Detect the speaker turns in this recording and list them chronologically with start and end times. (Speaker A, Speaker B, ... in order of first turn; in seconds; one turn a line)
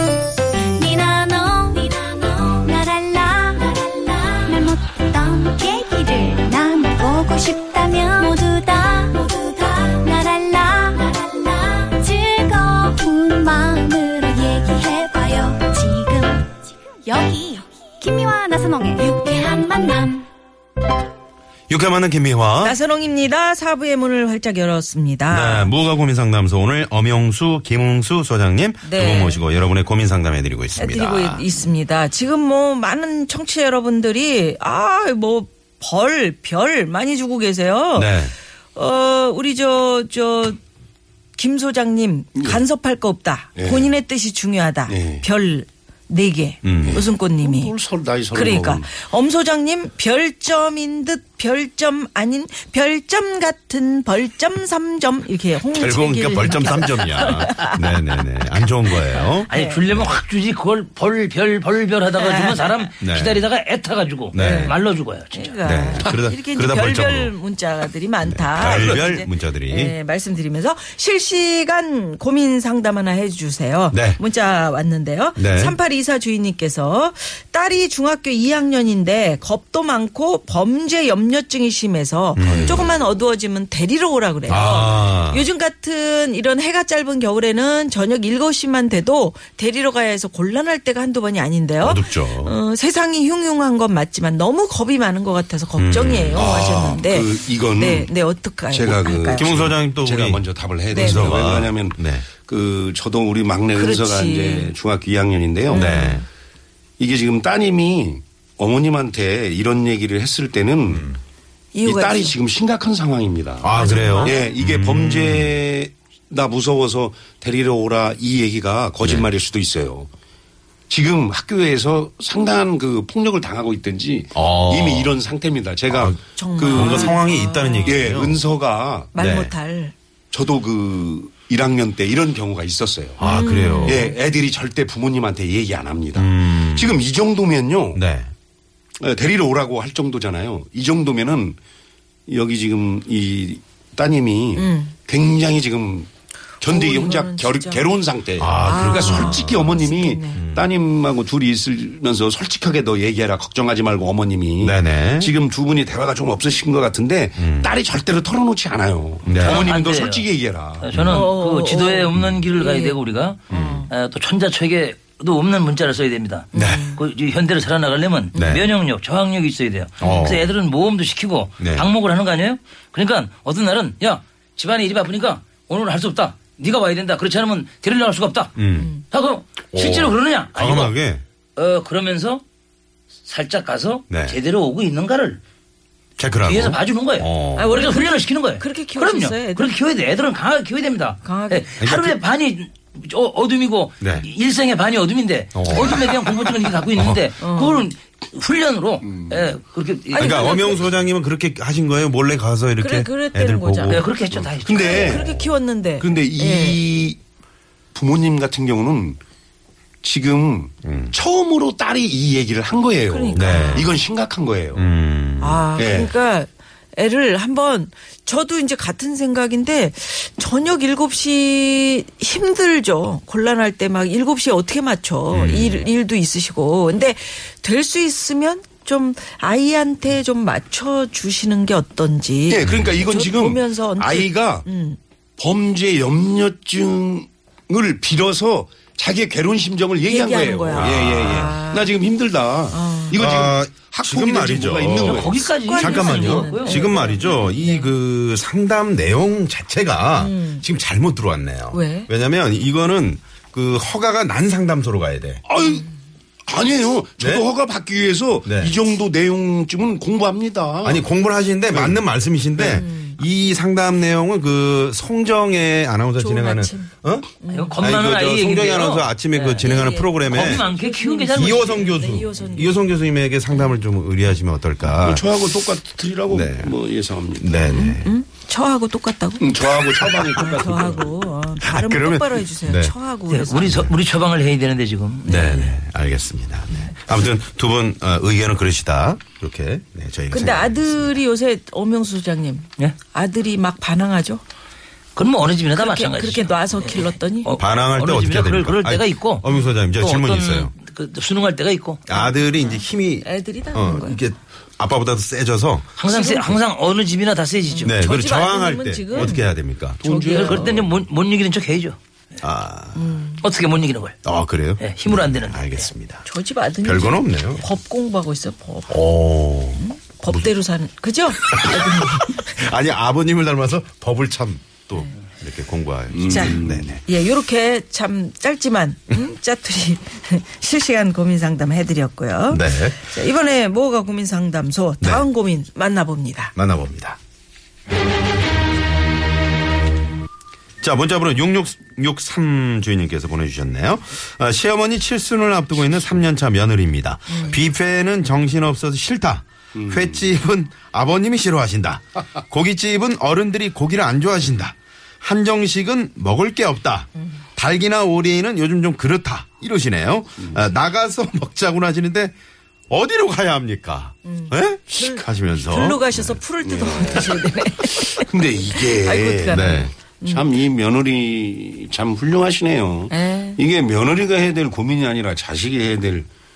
Speaker A: 0.8-16.5
Speaker A: 17.1-20.2
Speaker B: 21.7-22.8
Speaker C: 22.6-25.7
Speaker B: 25.3-31.4
Speaker C: 28.8-29.4
Speaker C: 30.8-38.2
Speaker B: 37.9-38.3
Speaker C: 38.8-40.6
Speaker C: 41.4-47.7
Speaker D: 42.4-42.6
Speaker D: 43.6-43.9
Speaker D: 44.9-45.3
Speaker B: 46.6-47.0
Speaker D: 46.8-48.9
Speaker C: 48.3-58.0
Speaker B: 55.7-60.1
Speaker E: 57.2-57.6
Speaker C: 59.4-59.8
Speaker E: 59.5-65.6
Speaker C: 62.2-62.9
Speaker B: 63.0-63.5
Speaker B: 64.3-64.8
Speaker C: 64.4-99.5
Speaker B: 65.6-67.3
Speaker B: 68.2-70.0
Speaker D: 68.6-69.0
Speaker B: 73.9-74.2
Speaker B: 75.4-75.8
Speaker B: 82.4-82.9
Speaker D: 82.4-82.9
Speaker B: 84.5-85.5
Speaker B: 91.8-92.6
Speaker B: 95.8-96.6
Speaker D: 96.3-98.1
Speaker D: 98.7-106.0
Speaker B: 99.3-102.3
Speaker C: 100.9-101.3
Speaker C: 103.8-104.8
Speaker C: 105.7-106.3
Speaker B: 105.7-106.2
Speaker D: 107.0-111.1
Speaker C: 111.7-112.3
Speaker D: 111.8-120.1
Speaker B: 113.6-115.6
Speaker C: 113.7-114.5
Speaker B: 119.0-119.3
Speaker D: 120.9-127.2
Speaker B: 124.3-125.2
Speaker B: 125.9-128.4
Speaker C: 126.4-128.0
Speaker D: 127.8-129.1
Speaker C: 129.1-129.9
Speaker B: 129.2-129.5
Speaker D: 130.3-133.2
Speaker B: 133.2-134.1
Speaker C: 133.2-134.2
Speaker D: 133.8-138.0
Speaker B: 136.2-137.0
Speaker B: 137.9-138.3
Speaker D: 139.0-141.6
Speaker D: 142.3-146.1
Speaker C: 144.6-145.0
Speaker D: 146.6-160.9
Speaker C: 146.7-147.9
Speaker B: 148.4-149.7
Speaker C: 148.6-150.4
Speaker B: 150.3-150.7
Speaker B: 154.6-155.3
Speaker B: 157.4-157.7
Speaker B: 159.2-159.7
Speaker E: 159.4-178.5
Speaker B: 160.9-161.3
Speaker C: 161.1-163.9
Speaker B: 162.2-162.4
Speaker B: 163.5-163.9
Speaker C: 166.5-167.0
Speaker B: 166.5-166.9
Speaker B: 168.3-168.7
Speaker B: 170.0-170.6
Speaker B: 171.6-171.9
Speaker B: 178.6-178.9
Speaker C: 178.8-179.1
Speaker E: 179.1-180.9
Speaker B: 179.7-181.2
Speaker E: 181.6-182.4
Speaker E: 183.2-185.4
Speaker B: 184.1-184.4
Speaker B: 186.2-187.8
Speaker E: 186.4-200.9
Speaker C: 187.6-189.7
Speaker C: 191.2-191.8
Speaker B: 191.8-192.2
Speaker B: 194.0-194.3
Speaker B: 195.6-196.2
Speaker B: 196.9-197.2
Speaker C: 197.4-197.8
Speaker D: 199.0-199.5
Speaker B: 200.1-204.1
Speaker C: 200.2-200.7
Speaker C: 202.8-204.0
Speaker E: 203.9-205.0
Speaker D: 204.6-205.4
Speaker C: 204.8-206.8
Speaker B: 204.9-205.2
Speaker D: 206.0-207.2
Speaker D: 207.9-209.2
Speaker D: 210.0-214.8
Speaker B: 210.8-211.2
Speaker C: 213.1-213.9
Speaker B: 213.3-213.9
Speaker B: 214.8-215.7
Speaker C: 215.4-235.0
Speaker D: 215.8-216.1
Speaker B: 225.3-225.8
Speaker D: 232.5-234.7
Speaker D: 235.4-245.5
Speaker C: 240.1-241.9
Speaker B: 240.7-241.6
Speaker C: 242.7-243.2
Speaker B: 243.1-255.4
Speaker E: 245.0-246.8
Speaker C: 245.6-247.9
Speaker C: 250.2-250.7
Speaker C: 251.7-252.1
Speaker D: 255.5-255.9
Speaker D: 256.5-261.1
Speaker B: 257.2-257.5
Speaker B: 258.4-258.8
Speaker B: 260.8-270.7
Speaker D: 261.7-262.0
Speaker D: 262.6-262.8
Speaker C: 262.7-263.2
Speaker C: 266.2-267.8
Speaker E: 267.5-272.0
Speaker C: 269.6-272.9
Speaker B: 271.3-275.4
Speaker D: 274.9-277.7
Speaker B: 276.3-276.7
Speaker B: 277.4-278.1
Speaker C: 277.7-283.9
Speaker D: 279.4-281.1
Speaker B: 281.6-282.9
Speaker E: 283.3-285.4
Speaker B: 283.6-283.9
Speaker B: 285.2-291.2
Speaker C: 285.3-285.8
Speaker C: 290.3-294.4
Speaker E: 295.1-302.0
Speaker C: 295.7-297.5
Speaker B: 297.6-300.7
Speaker B: 302.1-306.0
Speaker C: 302.1-304.2
Speaker E: 306.0-308.0
Speaker C: 306.1-306.6
Speaker C: 307.7-309.5
Speaker B: 307.8-310.0
Speaker D: 310.0-310.9
Speaker C: 310.0-310.9
Speaker E: 310.3-312.0
Speaker B: 312.4-313.2
Speaker C: 312.9-313.4
Speaker E: 313.4-314.2
Speaker B: 314.2-316.2
Speaker E: 314.8-315.7
Speaker C: 316.2-319.1
Speaker B: 316.8-317.7
Speaker B: 318.9-320.5
Speaker C: 319.8-322.4
Speaker B: 321.4-327.0
Speaker D: 326.1-326.9
Speaker C: 326.3-336.5
Speaker B: 332.5-333.1
Speaker B: 335.0-335.3
Speaker B: 336.6-337.2
Speaker B: 340.8-362.4
Speaker C: 347.3-347.6
Speaker D: 349.8-350.3
Speaker B: 362.9-366.4
Speaker C: 364.3-370.4
Speaker D: 366.7-376.3
Speaker B: 369.5-369.9
Speaker C: 373.1-373.6